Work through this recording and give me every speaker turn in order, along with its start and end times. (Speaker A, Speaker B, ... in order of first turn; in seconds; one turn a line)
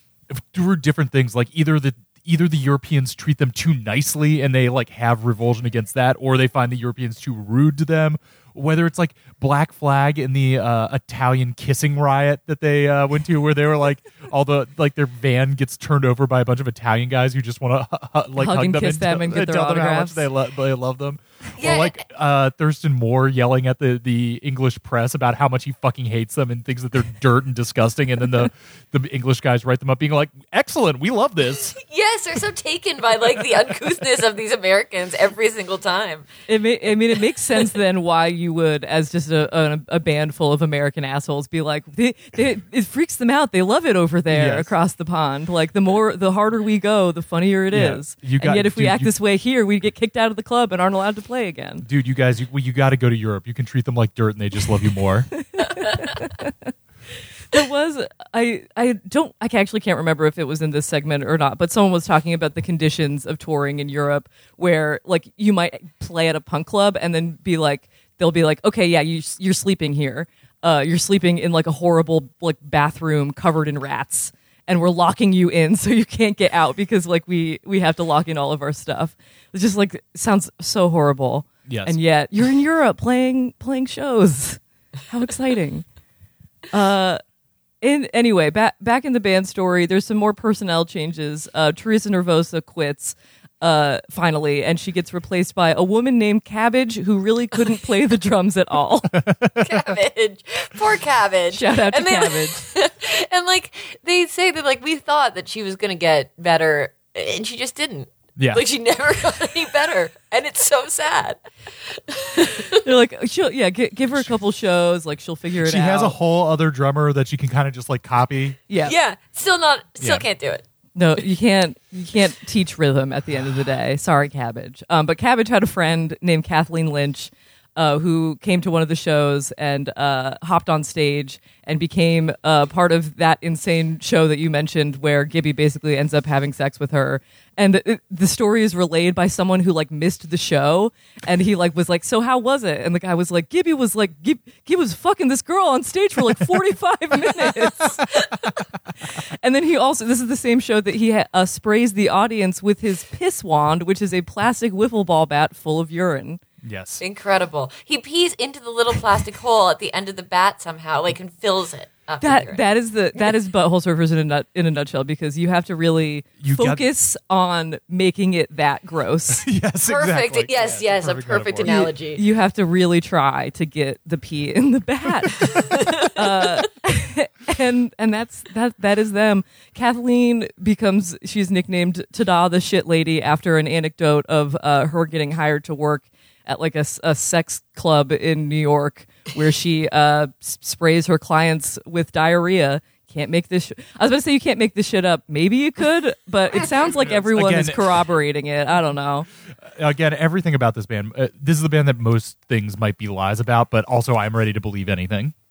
Speaker A: 0.3-31.7
Speaker B: 18.4-20.3
Speaker C: 21.6-22.0
Speaker C: 31.7-36.3
Speaker B: 36.5-51.8
Speaker A: 44.3-44.7
Speaker A: 47.7-49.1
Speaker A: 51.8-55.3
Speaker B: 55.5-56.7
Speaker B: 57.5-85.8
Speaker A: 81.7-82.0
Speaker B: 86.7-87.2
Speaker B: 87.8-99.1
Speaker A: 99.1-100.0
Speaker C: 99.6-112.8
Speaker B: 101.5-102.6
Speaker A: 108.4-108.6
Speaker B: 112.8-116.1
Speaker A: 115.6-118.6
Speaker C: 118.8-120.6
Speaker B: 120.9-148.1
Speaker B: 149.2-156.4
Speaker A: 156.6-157.0
Speaker C: 157.0-162.6
Speaker B: 162.2-169.4
Speaker A: 166.4-166.8
Speaker A: 169.3-171.9
Speaker C: 169.9-172.2
Speaker B: 171.6-199.2
Speaker C: 175.5-176.5
Speaker A: 197.0-198.1
Speaker A: 199.5-205.3